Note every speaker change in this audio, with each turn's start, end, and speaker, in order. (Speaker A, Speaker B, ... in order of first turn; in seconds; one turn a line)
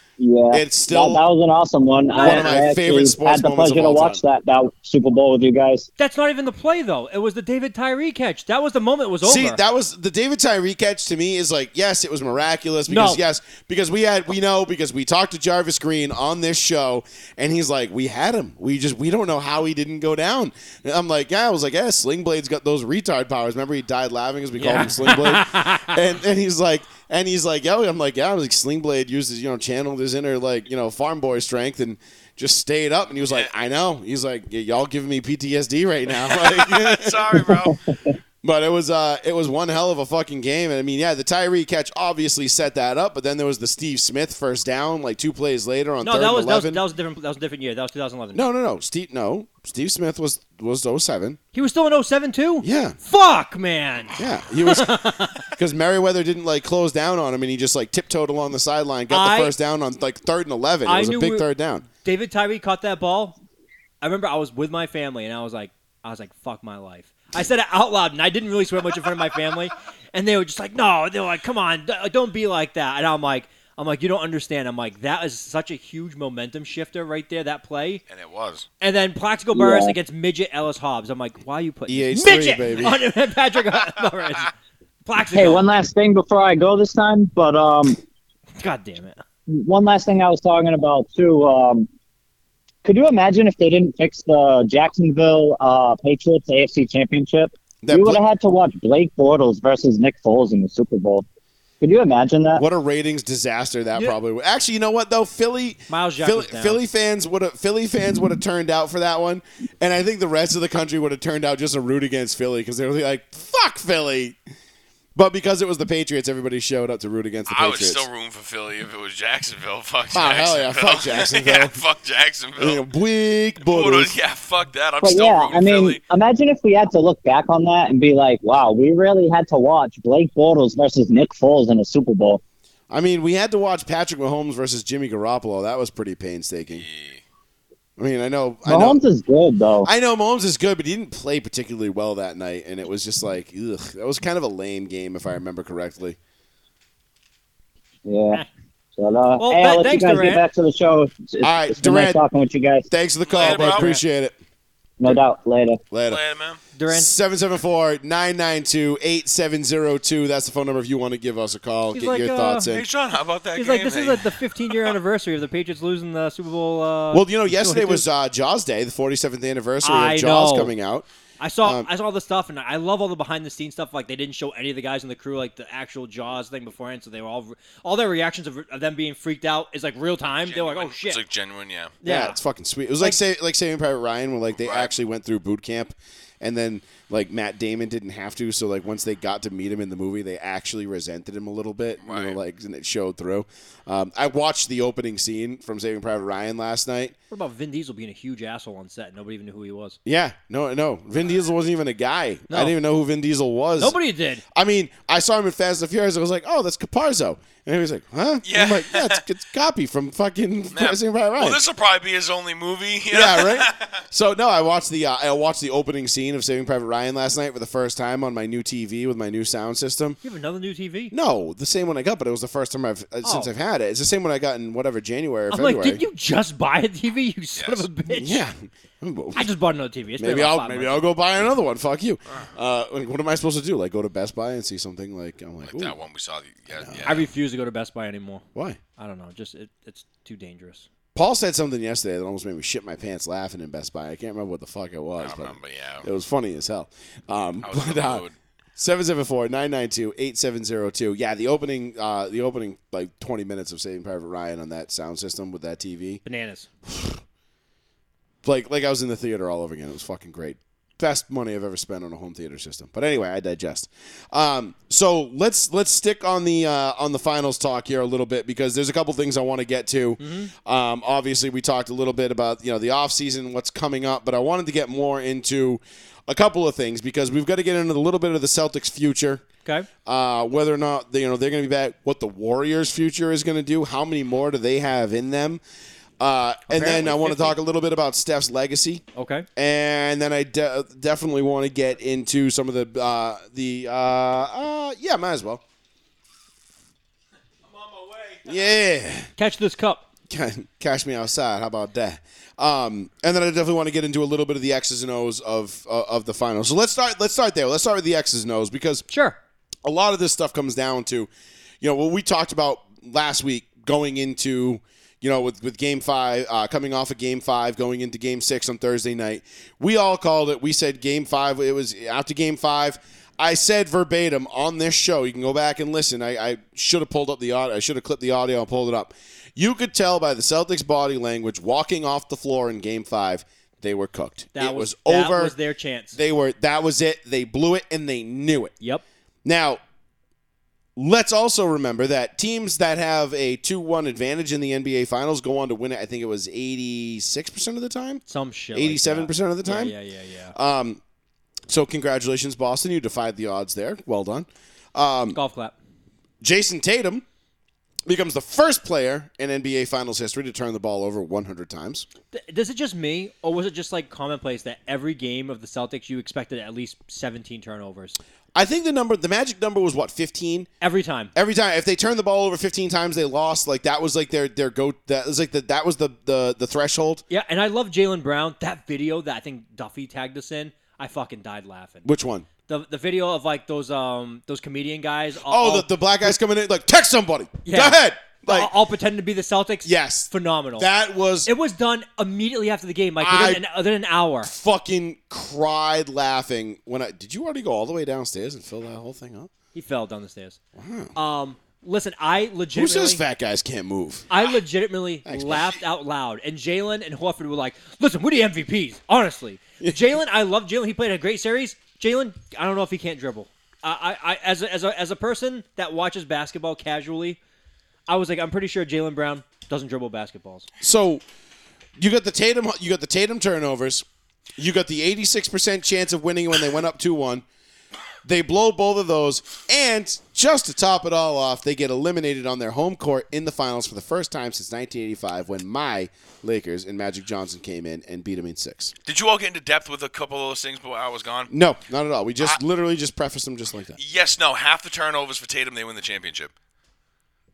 Speaker A: 0.2-5.9
Speaker B: 0.5-1.2
Speaker B: 2.2-4.2
Speaker C: 6.0-9.6
Speaker B: 9.2-37.7
Speaker C: 12.9-13.2
Speaker C: 24.6-26.0
Speaker D: 33.2-33.5
Speaker D: 36.1-37.8
Speaker B: 38.4-46.8
Speaker C: 46.0-48.4
Speaker B: 48.3-51.4
Speaker C: 51.5-55.4
Speaker B: 52.6-53.0
Speaker B: 54.2-61.9
Speaker C: 59.1-59.5
Speaker C: 60.8-61.5
Speaker C: 62.0-63.4
Speaker C: 64.0-78.0
Speaker D: 78.1-78.7
Speaker C: 78.8-84.5
Speaker A: 79.5-80.0
Speaker B: 81.9-83.0
Speaker C: 85.0-85.7
Speaker A: 85.3-88.0
Speaker C: 88.6-89.2
Speaker A: 89.5-91.9
Speaker A: 92.8-101.2
Speaker B: 97.8-98.2
Speaker A: 101.8-102.6
Speaker B: 102.5-114.4
Speaker C: 105.9-106.8
Speaker B: 115.2-118.1
Speaker D: 117.5-122.8
Speaker B: 120.1-121.8
Speaker B: 122.6-124.1
Speaker D: 123.7-126.0
Speaker A: 125.0-132.4
Speaker B: 132.9-136.8
Speaker D: 136.7-137.2
Speaker B: 138.0-139.0
Speaker A: 138.7-139.9
Speaker B: 139.8-146.2
Speaker A: 148.1-148.4
Speaker A: 149.0-152.9
Speaker C: 149.4-150.4
Speaker B: 151.4-152.2
Speaker B: 152.9-154.3
Speaker D: 153.2-153.9
Speaker C: 153.4-154.0
Speaker A: 155.0-155.8
Speaker B: 155.9-156.2
Speaker D: 156.1-156.6
Speaker C: 156.8-157.1
Speaker B: 156.9-162.8
Speaker C: 161.9-162.7
Speaker D: 162.7-164.9
Speaker C: 163.5-168.0
Speaker B: 167.1-171.1
Speaker C: 169.8-170.7
Speaker C: 171.4-181.2
Speaker D: 180.4-181.9
Speaker C: 182.0-182.4
Speaker B: 182.0-197.1
Speaker D: 184.6-184.9
Speaker D: 192.0-192.4
Speaker C: 197.3-200.0
Speaker B: 200.0-204.0
Speaker C: 202.5-202.7
Speaker C: 203.8-204.4
Speaker B: 204.5-211.6
Speaker D: 208.4-209.2
Speaker D: 210.7-213.9
Speaker B: 213.1-220.2
Speaker C: 220.2-221.1
Speaker B: 221.1-226.0
Speaker C: 223.2-223.5
Speaker C: 225.5-228.4
Speaker D: 227.6-227.9
Speaker B: 228.1-229.5
Speaker C: 229.3-231.1
Speaker B: 230.2-236.0
Speaker D: 235.6-237.3
Speaker B: 236.7-237.1
Speaker C: 237.1-238.4
Speaker C: 239.0-240.9
Speaker B: 241.1-248.2
Speaker D: 245.2-246.1
Speaker D: 247.6-248.3
Speaker B: 248.8-256.2
Speaker C: 256.2-256.7
Speaker B: 256.9-257.2
Speaker B: 258.4-279.4
Speaker C: 270.2-270.5
Speaker B: 280.0-285.6
Speaker B: 286.2-289.0
Speaker C: 286.7-287.6
Speaker C: 289.1-289.4
Speaker B: 289.6-295.6
Speaker D: 297.6-298.8
Speaker B: 298.4-299.3
Speaker C: 299.4-300.0
Speaker B: 300.3-309.0
Speaker C: 309.1-309.4
Speaker B: 309.8-311.3
Speaker B: 311.8-335.6
Speaker C: 334.5-336.2
Speaker B: 336.1-338.7
Speaker B: 339.4-339.8
Speaker B: 340.9-348.2
Speaker C: 348.3-350.5
Speaker B: 348.7-349.9
Speaker B: 350.5-351.0
Speaker B: 351.7-355.4
Speaker C: 355.3-355.7
Speaker B: 356.4-357.2
Speaker B: 358.1-362.1
Speaker C: 362.3-368.2
Speaker B: 368.5-370.7
Speaker C: 370.8-371.3
Speaker B: 371.3-377.2
Speaker C: 377.3-382.1
Speaker B: 382.0-382.5
Speaker C: 382.7-386.3
Speaker B: 385.4-388.7
Speaker C: 387.6-390.9
Speaker B: 389.8-391.5
Speaker C: 391.4-394.5
Speaker B: 393.2-393.6
Speaker B: 394.4-399.5
Speaker C: 399.7-400.6
Speaker B: 400.8-401.1
Speaker C: 401.1-403.2
Speaker B: 402.7-404.3
Speaker C: 404.3-417.4
Speaker B: 405.2-405.7
Speaker C: 418.1-420.7
Speaker B: 420.8-421.2
Speaker B: 422.0-424.1
Speaker B: 424.6-427.4
Speaker B: 428.2-438.9
Speaker D: 439.1-441.5
Speaker B: 441.5-444.0
Speaker D: 444.0-446.5